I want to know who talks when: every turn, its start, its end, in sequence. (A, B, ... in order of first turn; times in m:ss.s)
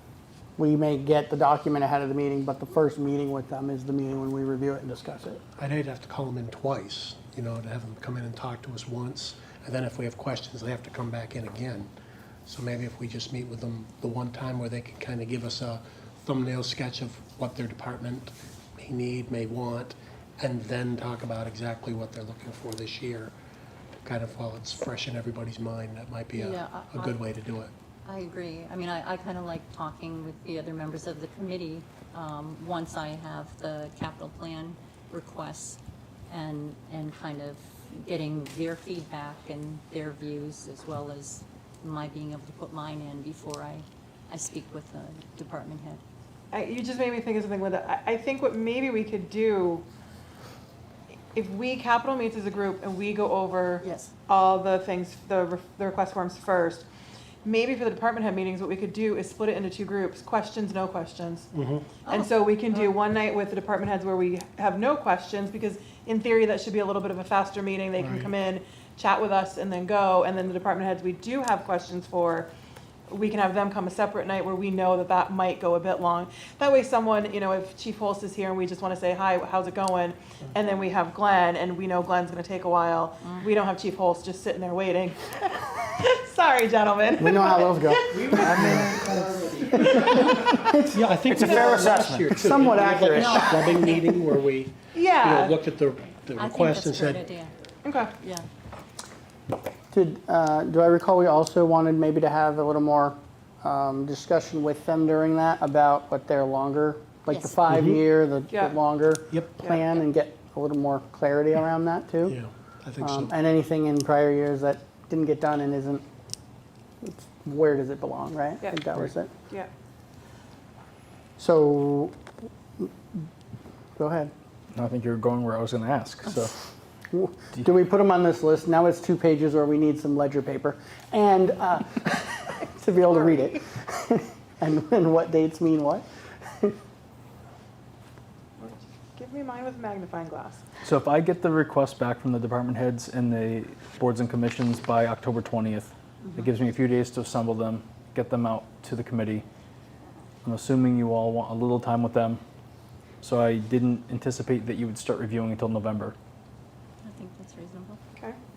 0:00.6-0:05.4 A
0:05.6-0:11.9 B
0:12.4-0:23.3 B
0:24.0-0:27.7 B
0:26.3-0:27.2 C
0:28.0-0:46.0 C
0:46.5-0:49.8 D
0:51.3-0:56.8 D
0:53.8-0:54.1 C
0:57.4-1:01.5 D
1:01.5-1:02.0 B
1:02.0-1:02.9 C
1:02.0-1:12.5 D
1:08.0-1:08.3 B
1:13.1-1:28.3 D
1:27.2-1:33.7 A
1:28.2-1:30.3 B
1:30.9-1:37.3 B
1:33.1-1:34.1 C
1:34.9-1:35.6 D
1:36.4-1:37.5 C
1:37.8-1:38.2 D
1:38.2-1:38.5 C
1:39.9-1:52.4 A
1:47.3-1:47.6 C
1:47.7-1:48.0 B
1:48.5-1:48.8 D
1:49.6-1:49.9 D
1:52.2-1:53.3 B
1:53.0-1:56.0 A
1:57.0-1:59.3 A
1:59.4-1:59.7 D
2:01.4-2:02.2 A
2:04.0-2:04.3 A
2:04.7-2:06.6 E
2:07.1-2:16.0 A
2:18.6-2:20.6 D
2:20.8-2:29.4 E
2:30.4-2:32.4 E
2:33.2-2:36.1 E
2:37.0-2:38.0 C